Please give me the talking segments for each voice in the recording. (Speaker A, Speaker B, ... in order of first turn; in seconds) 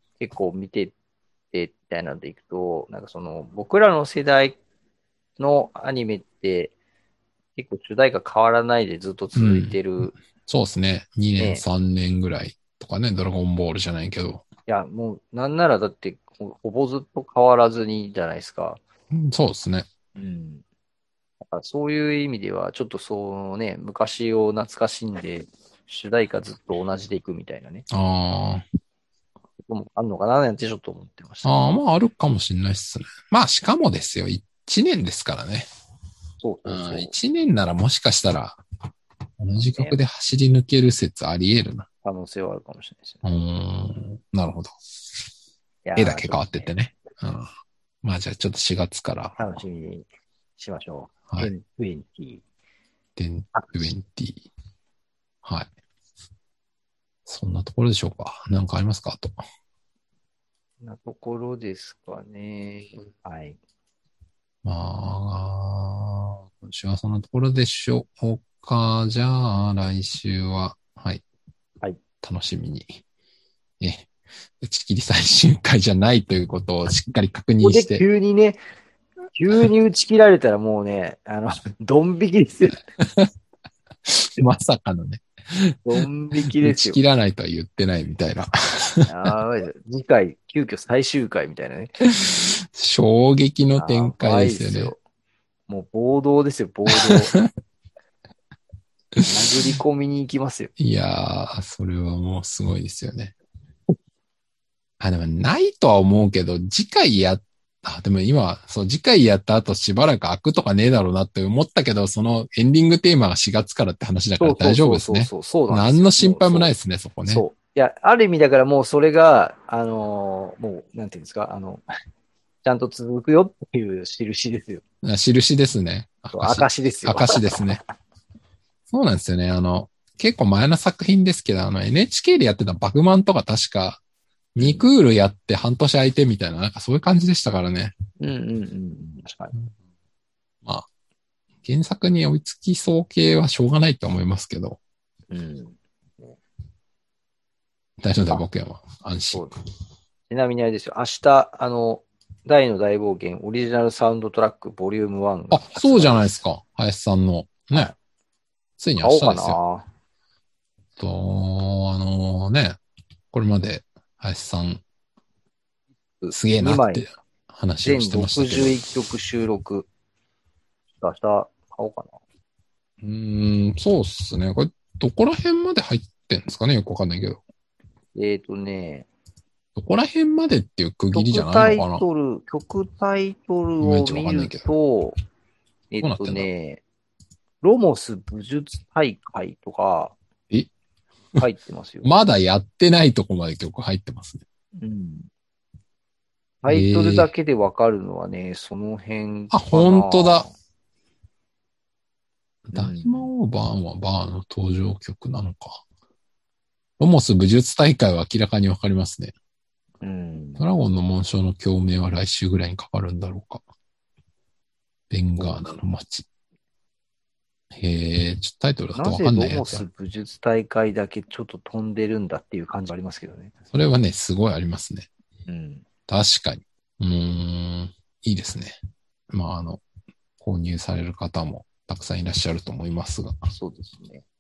Speaker A: 0.2-0.9, 1.5-4.6, 5.4-6.7, 7.6-10.1, 11.4-11.6, 14.7-18.8, 20.2-20.6, 21.4-27.9, 29.6-31.8, 36.4-37.1, 39.6-40.0, 42.0-43.2, 45.9-46.7, 49.4-50.1, 50.6-52.4, 53.5-53.9, 60.8-63.6, 77.6-78.6, 79.3-82.8, 85.9-87.0, 89.1-91.9, 93.8-95.0, 95.7-97.3, 99.2-100.7, 114.4-116.7, 117.3-121.8, 122.6-124.8, 126.3-127.7, 134.6-134.9, 138.2-139.6, 145.3-146.4, 150.3-156.4, 159.0-159.9, 166.2-167.1, 167.8-169.9, 171.0-172.2, 178.2-179.1, 181.1-185.2, 185.9-186.8, 187.6-190.2, 191.4-192.1, 194.8-195.3, 196.6-200.5, 202.7-203.3, 210.0-210.6, 215.4-215.6, 218.9-223.5, 225.5-225.8, 233.5-234.3
Speaker B: 9.3-14.4, 19.1-19.9, 27.9-28.6, 31.4-35.7, 36.7-38.6, 39.4-41.9, 43.2-44.7, 46.0-47.5, 48.0-49.5, 53.2-54.4, 55.4-55.7, 57.3-59.4, 64.6-71.2, 72.2-73.0, 73.8-74.1, 74.6-78.0, 83.0-83.3, 84.1-85.8, 86.4-89.3, 92.1-94.9, 96.9-97.5, 100.8-103.3, 105.0-117.4, 125.0-127.8, 128.9-134.0, 134.6-138.0, 141.6-144.8, 148.0-149.5, 155.5-157.9, 158.8-159.6, 161.0-162.8, 163.3-164.8, 166.3-168.8, 173.0-177.4, 179.8-182.1, 183.8-184.7, 186.0-186.5, 192.0-194.4, 196.7-197.3, 199.5-200.5, 202.7-205.8, 207.0-209.3, 210.6-213.6, 215.1-216.3, 217.7-219.8, 223.7-225.1, 226.1-228.8, 229.3-229.8, 230.4-233.4